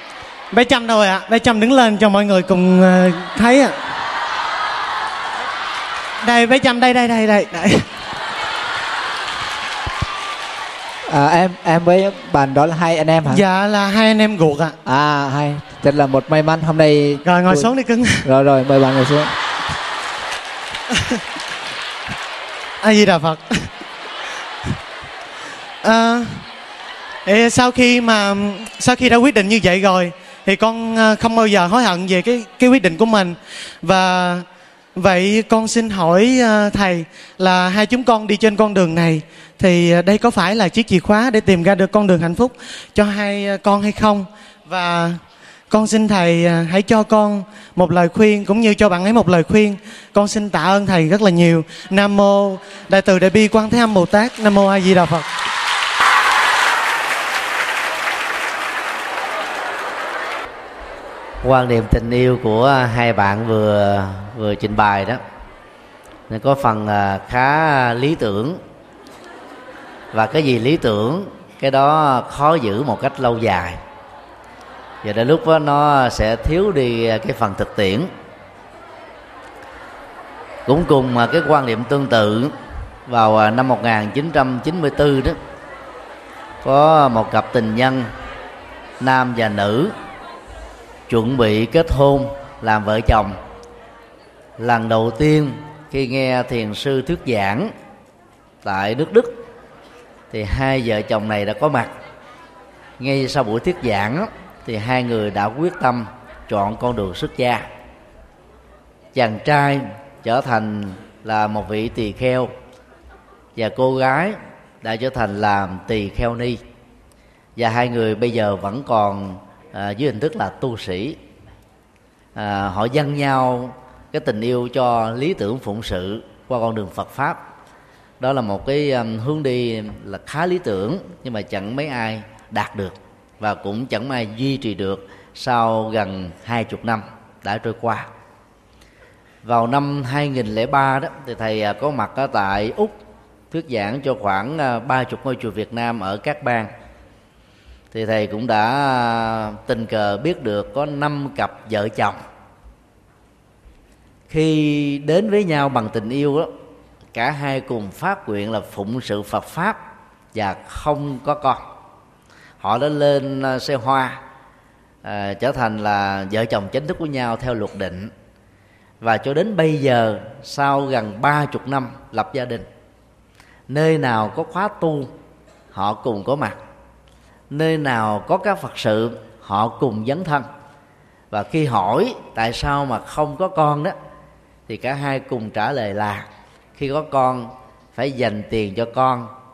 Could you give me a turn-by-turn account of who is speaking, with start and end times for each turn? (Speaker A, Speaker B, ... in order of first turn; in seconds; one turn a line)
Speaker A: 0.5-3.8
Speaker A: 6.2-7.9
Speaker B: 11.1-13.4
Speaker A: 13.3-14.8
Speaker B: 14.8-17.7
Speaker A: 17.2-18.3
Speaker B: 18.2-19.3
Speaker A: 22.8-23.7
Speaker A: 25.8-26.4
Speaker A: 27.3-55.3
Speaker C: 61.4-65.2
Speaker C: 66.3-68.6
Speaker C: 70.1-73.8
Speaker C: 75.0-78.1
Speaker C: 80.7-82.5
Speaker C: 83.1-85.4
Speaker C: 86.6-88.1
Speaker C: 89.0-89.9
Speaker C: 91.1-93.4
Speaker C: 94.6-97.7
Speaker C: 98.6-99.4
Speaker C: 100.3-101.9
Speaker C: 103.0-107.7
Speaker C: 109.1-112.5
Speaker C: 113.6-116.6
Speaker C: 117.6-121.2
Speaker C: 122.4-127.4
Speaker C: 128.2-138.1
Speaker C: 139.4-143.0
Speaker C: 143.5-146.7
Speaker C: 147.9-152.2
Speaker C: 154.3-156.5
Speaker C: 157.2-159.8
Speaker C: 160.3-161.6
Speaker C: 162.6-164.2
Speaker C: 165.0-168.1
Speaker C: 169.0-172.7
Speaker C: 173.7-175.1
Speaker C: 175.7-176.6
Speaker C: 177.5-180.5
Speaker C: 181.3-183.9
Speaker C: 184.7-189.3